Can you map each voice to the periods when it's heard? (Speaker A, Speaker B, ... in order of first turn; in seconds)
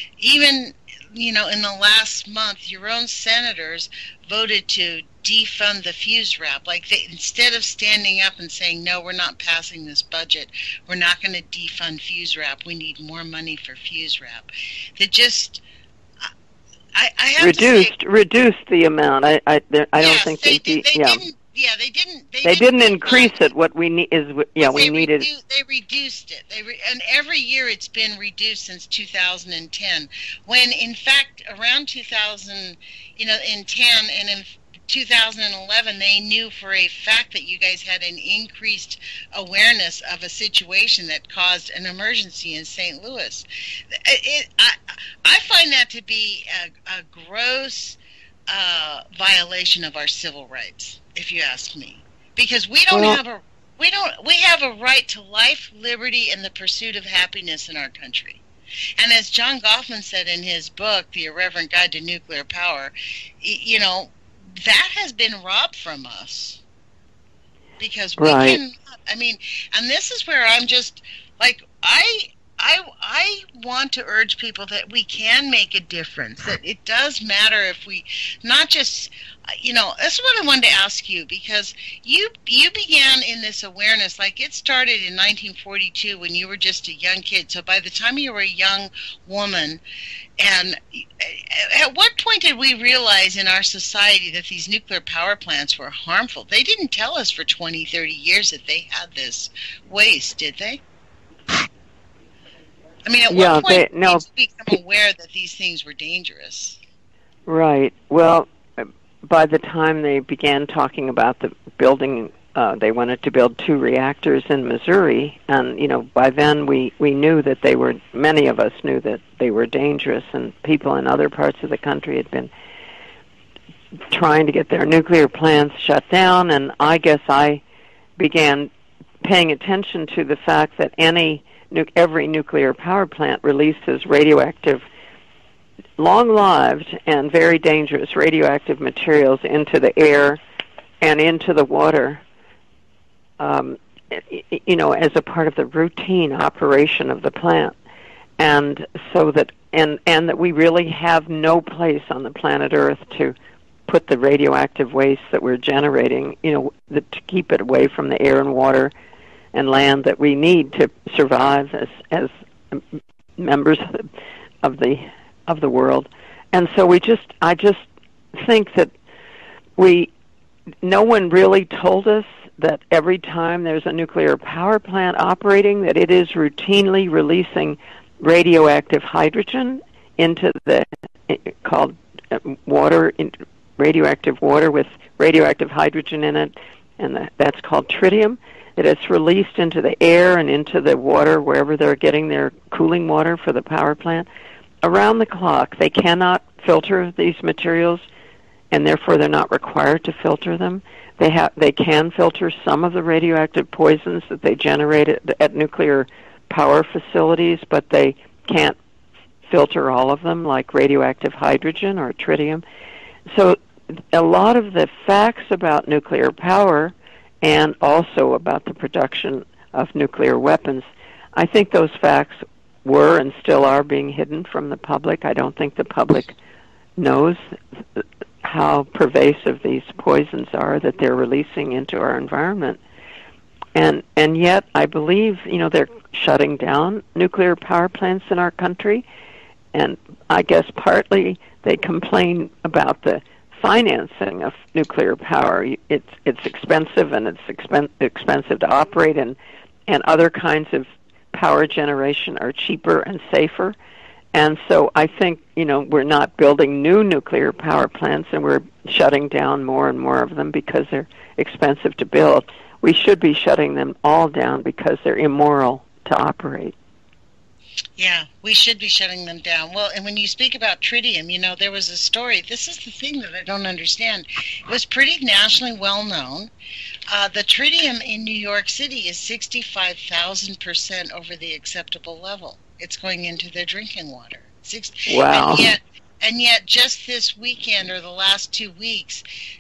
Speaker A: 0.2-15.6, 16.9-17.9, 20.0-23.5, 24.6-48.0, 48.5-58.4, 59.0-66.6, 67.8-89.8, 90.4-100.8, 103.0-106.8, 268.0-276.5, 277.1-289.2
Speaker B: 17.4-21.2, 22.4-25.3, 52.9-53.2, 68.2-68.6, 103.3-104.2, 107.5-122.5, 124.1-127.6, 128.2-128.7, 129.2-134.8, 136.0-140.4, 141.0-142.2, 143.4-147.8, 148.4-153.3, 153.9-158.9, 159.5-164.1, 164.6-168.9, 169.8-170.1, 170.8-194.3, 194.8-198.0, 198.7-208.8, 209.5-212.6, 213.3-226.4, 227.0-227.4, 228.0-232.8, 233.8-239.1, 239.7-249.4, 249.9-253.8, 254.3-266.8, 285.1-285.7